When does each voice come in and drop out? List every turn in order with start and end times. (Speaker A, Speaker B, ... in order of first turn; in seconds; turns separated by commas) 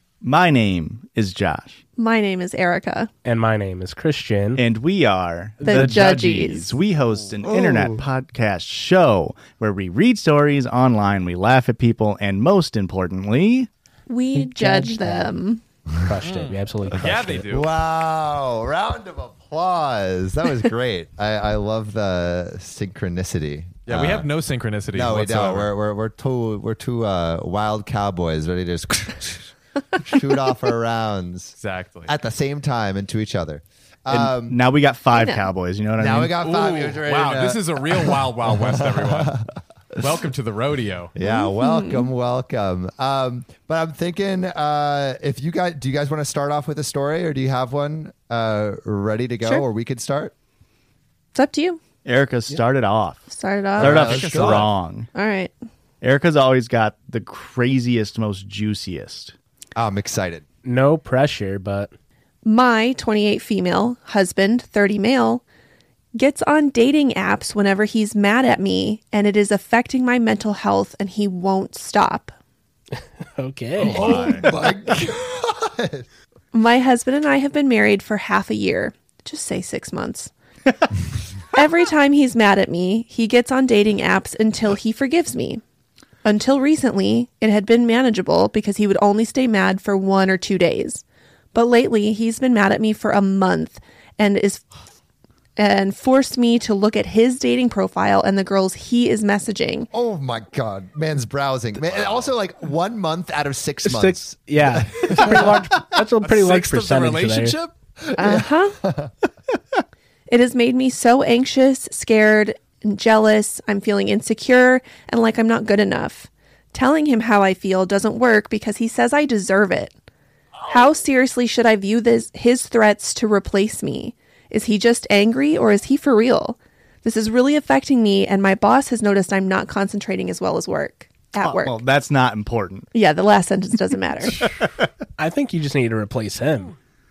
Speaker A: 0.2-1.8, Speaker B: 2.0-3.1, Speaker C: 3.2-4.6, Speaker A: 4.6-13.7, Speaker C: 5.6-6.2, Speaker B: 5.6-6.8, Speaker D: 7.4-8.0, Speaker B: 14.1-15.6, Speaker C: 14.3-15.4, Speaker C: 16.1-17.6, Speaker E: 16.2-17.7, Speaker D: 17.5-24.3, Speaker E: 23.9-25.7, Speaker D: 24.9-31.6, Speaker E: 31.6-32.1, Speaker D: 32.1-34.6, Speaker A: 34.1-36.3, Speaker B: 35.1-35.5, Speaker D: 36.0-39.5, Speaker E: 36.4-39.4, Speaker E: 40.0-41.1, Speaker D: 41.2-50.3, Speaker B: 41.2-42.1, Speaker B: 51.4-51.8, Speaker A: 52.0-53.2, Speaker B: 53.3-53.9, Speaker A: 53.8-55.1, Speaker D: 53.8-54.7, Speaker E: 53.8-54.7, Speaker B: 55.1-55.5, Speaker A: 56.0-59.3, Speaker D: 59.8-60.4, Speaker C: 60.6-61.9, Speaker B: 62.5-65.4, Speaker B: 66.2-72.3, Speaker C: 73.2-74.5, Speaker E: 73.8-74.5, Speaker D: 73.8-76.0, Speaker B: 76.5-80.3, Speaker B: 81.5-85.6, Speaker B: 86.2-94.7, Speaker B: 95.6-99.9, Speaker D: 99.9-105.6, Speaker E: 101.8-102.3, Speaker C: 103.8-107.6, Speaker E: 106.2-107.7, Speaker D: 108.0-109.1, Speaker B: 108.2-108.8, Speaker B: 110.3-120.0, Speaker B: 120.7-131.8, Speaker A: 131.4-132.9, Speaker B: 132.9-134.4, Speaker C: 135.2-136.8